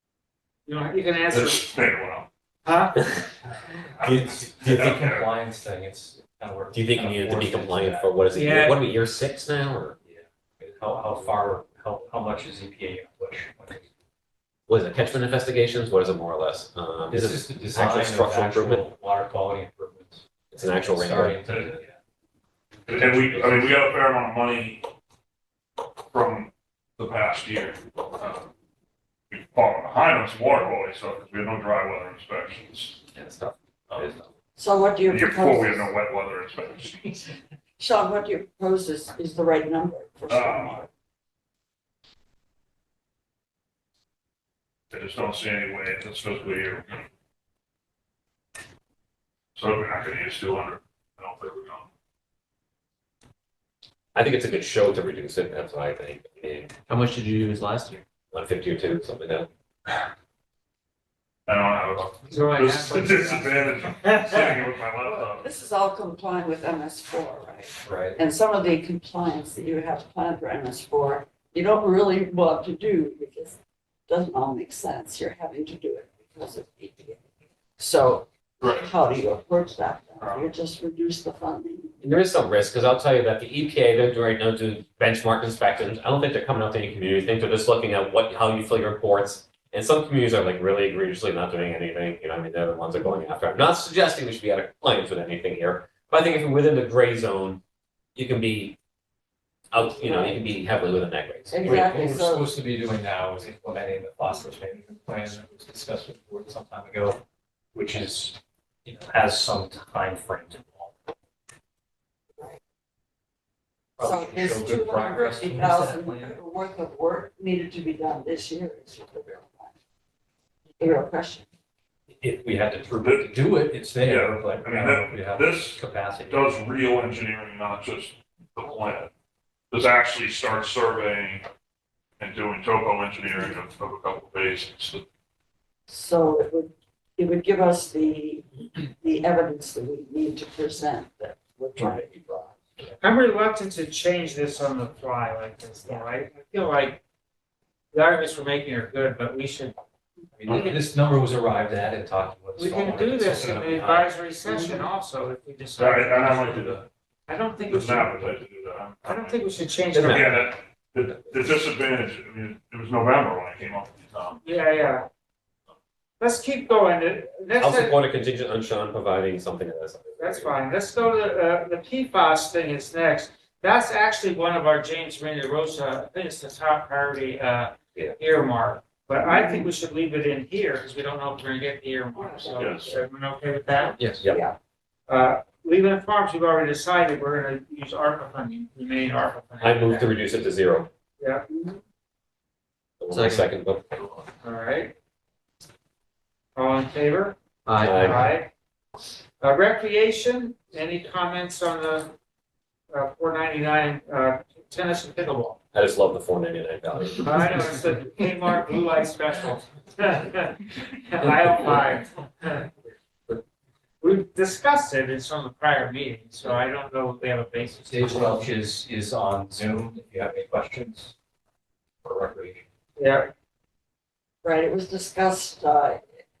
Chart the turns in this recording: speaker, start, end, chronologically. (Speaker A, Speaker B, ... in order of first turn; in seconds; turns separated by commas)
Speaker A: 0.7-1.6, Speaker B: 1.3-2.3, Speaker A: 2.6-3.0, Speaker C: 4.0-5.0, Speaker B: 4.0-5.3, Speaker D: 4.2-8.1, Speaker C: 6.7-9.9, Speaker A: 8.3-8.8, Speaker D: 10.1-13.8, Speaker C: 14.7-18.8, Speaker D: 17.1-21.9, Speaker C: 20.5-21.5, Speaker B: 22.9-24.9, Speaker D: 22.9-23.4, Speaker B: 26.1-28.5, Speaker B: 29.3-33.0, Speaker C: 33.1-34.3, Speaker E: 34.6-35.9, Speaker B: 35.1-37.2, Speaker E: 37.8-40.9, Speaker B: 40.3-40.8, Speaker B: 44.9-47.1, Speaker B: 49.5-51.9, Speaker C: 54.1-59.5, Speaker B: 61.5-65.5, Speaker A: 62.3-64.5, Speaker E: 64.3-77.2, Speaker D: 67.8-68.2, Speaker E: 77.8-81.9, Speaker B: 78.6-78.9, Speaker B: 80.2-80.5, Speaker C: 82.0-97.6, Speaker C: 98.2-98.8, Speaker C: 99.7-102.0, Speaker E: 100.0-100.4, Speaker E: 101.5-102.5, Speaker D: 101.6-107.2, Speaker D: 107.7-110.9, Speaker D: 114.0-116.4, Speaker E: 114.0-119.7, Speaker E: 120.8-121.5, Speaker D: 122.1-126.5, Speaker B: 123.0-123.2, Speaker B: 124.0-129.1, Speaker B: 129.7-131.5, Speaker B: 132.2-135.0, Speaker E: 135.9-142.6, Speaker A: 143.0-147.0, Speaker A: 147.9-149.7, Speaker D: 150.4-154.1, Speaker A: 150.4-150.8, Speaker A: 152.6-158.2, Speaker B: 155.8-156.9, Speaker B: 157.7-159.4, Speaker A: 159.1-160.4, Speaker B: 160.0-164.4, Speaker A: 164.4-165.1, Speaker A: 166.2-168.0, Speaker C: 167.6-170.6, Speaker A: 170.2-183.9, Speaker E: 179.2-179.7, Speaker E: 182.1-183.0, Speaker B: 182.6-182.8, Speaker E: 184.2-184.6, Speaker A: 185.1-190.2, Speaker C: 189.6-190.9, Speaker A: 191.2-191.4, Speaker E: 191.5-191.8, Speaker C: 193.0-194.0, Speaker A: 194.4-194.9, Speaker A: 196.5-198.5, Speaker C: 197.8-198.3, Speaker A: 199.4-202.1, Speaker A: 202.9-205.6, Speaker C: 205.7-207.5, Speaker A: 207.2-212.7, Speaker A: 214.0-218.3, Speaker D: 217.9-221.1, Speaker D: 222.0-222.6, Speaker A: 223.0-223.3, Speaker E: 224.4-226.0